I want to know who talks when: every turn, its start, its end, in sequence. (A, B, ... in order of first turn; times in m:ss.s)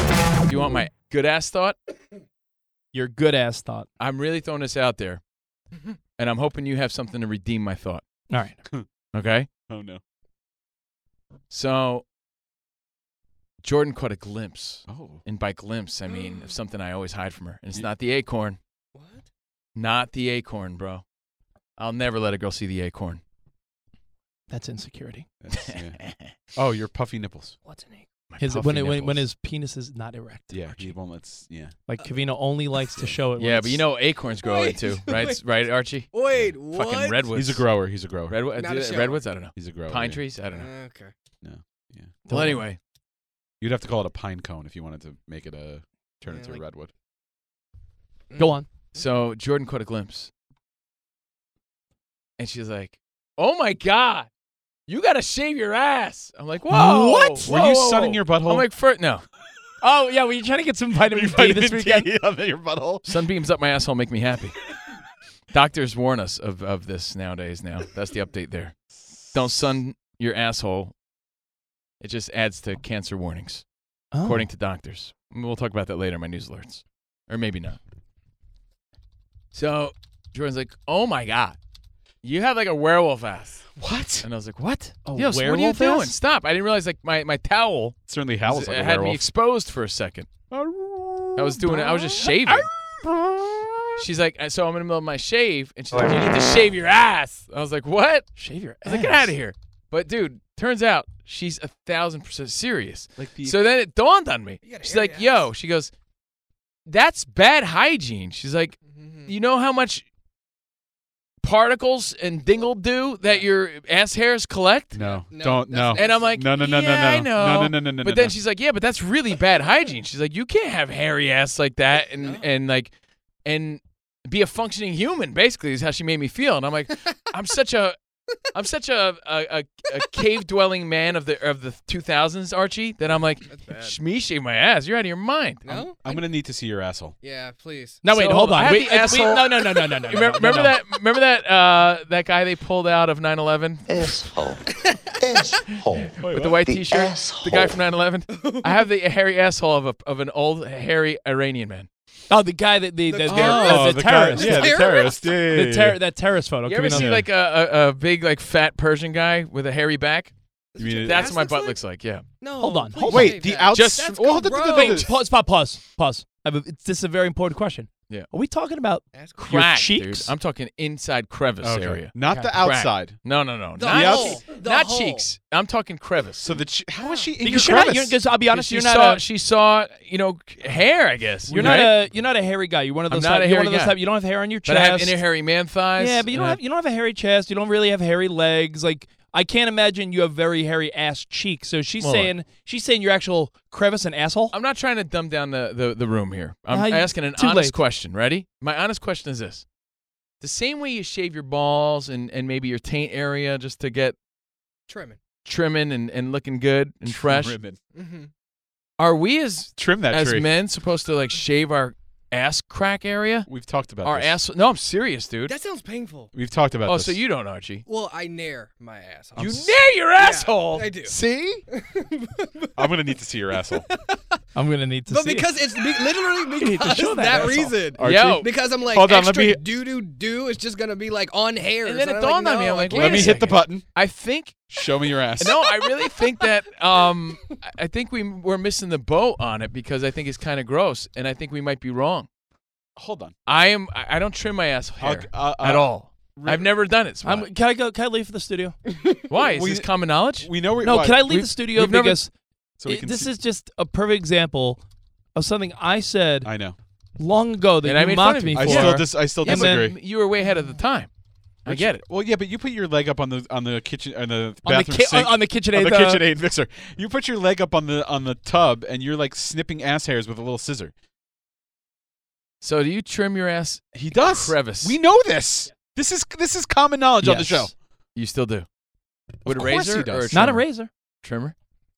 0:00.5-0:01.8 A
0:02.9-0:03.9 B
0:04.0-0:05.2 A
0:06.2-0:08.0 A
0:08.3-0:08.6 B
0:09.1-0:09.5 A
0:09.7-0:10.0 C
0:11.5-0:12.0 A
0:13.6-0:18.6 A
0:14.9-0:15.2 C
0:16.1-0:16.4 D
0:19.0-0:19.3 D
0:19.8-0:21.0 A
0:21.8-0:23.2 A
0:24.5-0:25.3 B
0:25.4-0:26.0 C
0:25.6-0:26.3 A
0:26.5-0:27.6 C
0:27.7-0:28.0 D
0:28.3-0:29.3 A
0:28.4-0:30.9 B
0:30.5-0:31.8 C
0:31.9-0:33.8 B
0:33.4-0:36.1 A
0:34.4-0:35.4 D
0:36.1-0:37.3 D
0:36.7-0:37.6 A
0:37.3-0:38.4 C
0:38.3-0:40.7 A
0:38.6-0:39.2 D
0:39.6-0:40.2 C
0:40.5-0:41.1 D
0:41.4-0:42.3 C
0:42.3-0:42.6 B
0:42.3-0:42.8 A
0:43.6-0:46.9 C
0:46.3-0:46.6 D
0:48.3-0:48.6 D
0:48.4-0:48.7 B
0:48.9-0:50.3 A
0:52.4-0:54.3 A
0:54.9-0:59.2 A
0:56.7-0:57.5 B
0:56.8-0:58.7 C
0:59.8-1:02.1 B
1:01.1-1:03.1 C
1:03.0-1:04.6 A
1:05.5-1:08.8 A
1:09.3-1:10.9 A
1:12.0-1:13.6 A
1:14.1-1:14.4 B
1:14.2-1:17.8 A
1:19.5-1:21.6 A
1:22.2-1:30.3 A
1:23.8-1:24.3 C
1:25.1-1:26.1 B
1:28.1-1:29.3 C
1:30.5-1:33.8 C
1:31.4-1:32.7 A
1:34.0-1:38.3 A
1:38.4-1:39.3 B
1:38.8-1:45.9 A
1:43.2-1:43.6 C
1:44.6-1:45.5 D
1:46.9-1:50.1 A
1:48.8-1:49.3 D
1:51.4-1:55.0 A
1:54.9-1:58.3 C
1:55.0-1:56.4 D
1:56.0-2:02.9 A
2:02.1-2:02.5 D
2:03.4-2:08.0 A
2:08.5-2:15.6 A
2:13.5-2:14.0 D
2:15.6-2:16.2 D
2:15.7-2:17.2 C
2:17.2-2:18.0 D
2:18.0-2:20.8 B
2:18.1-2:23.9 A
2:23.9-2:24.6 E
2:25.2-2:27.8 E
2:26.2-2:31.9 A
2:28.3-2:28.7 D
2:32.3-2:34.8 B
2:33.1-2:35.2 D
2:33.3-2:36.0 C
2:35.5-2:37.2 B
2:36.7-2:40.3 A
2:36.9-2:37.2 C
2:40.8-2:41.8 D
2:40.8-2:41.3 C
2:41.0-2:42.2 A
2:42.4-2:45.1 D
2:42.6-2:43.4 B
2:43.1-2:45.1 C
2:43.7-2:44.2 A
2:44.6-2:50.3 B
2:49.1-2:49.4 D
2:49.4-2:56.5 A
2:51.6-2:53.2 C
2:53.8-2:55.3 D
2:53.9-2:54.4 C
2:56.4-2:58.2 C
2:57.0-2:57.3 D
2:57.4-2:59.2 B
2:58.5-3:02.0 A
3:01.5-3:02.0 C
3:01.5-3:05.2 B
3:03.1-3:04.0 A
3:04.7-3:06.6 A
3:06.0-3:14.5 B
3:12.0-3:12.3 A
3:14.5-3:19.6 A
3:16.7-3:17.8 B
3:20.4-3:24.2 A
3:24.9-3:25.2 D
3:25.4-3:27.6 A
3:27.1-3:27.8 C
3:28.0-3:28.3 D
3:29.0-3:33.5 A
3:29.8-3:30.5 C
3:33.5-3:34.3 C
3:34.0-3:35.5 A
3:35.5-3:36.3 D
3:36.3-3:37.2 C
3:36.9-3:37.8 A
3:37.9-3:41.2 D
3:39.4-3:41.6 A
3:41.7-3:42.8 D
3:42.8-3:43.8 C
3:43.7-3:44.4 D
3:44.6-3:45.5 B
3:45.1-3:53.4 D
3:46.5-3:47.8 B
3:48.0-3:49.6 C
3:48.0-3:48.5 A
3:51.8-3:54.6 A
3:52.9-3:53.8 C
3:53.3-3:53.5 B
3:54.7-3:55.6 C
3:55.4-4:02.3 A
3:55.5-3:56.4 D
4:03.0-4:03.4 C
4:03.5-4:07.5 A
4:05.0-4:06.7 C
4:07.2-4:08.8 B
4:09.3-4:10.5 A
4:09.4-4:11.5 C
4:10.8-4:12.3 B
4:11.3-4:12.2 A
4:12.8-4:13.3 C
4:12.9-4:14.8 B
4:15.4-4:16.5 B
4:16.4-4:16.8 C
4:17.2-4:19.9 B
4:17.8-4:21.1 A
4:18.6-4:20.0 C
4:21.6-4:22.0 A
4:21.7-4:30.9 C
4:24.6-4:26.2 B
4:32.6-4:35.0 A
4:33.9-4:37.7 C
4:37.2-4:37.7 B
4:38.2-4:38.7 A
4:39.4-4:40.4 C
4:39.4-4:40.6 A
4:40.3-4:40.9 B
4:41.2-4:41.5 A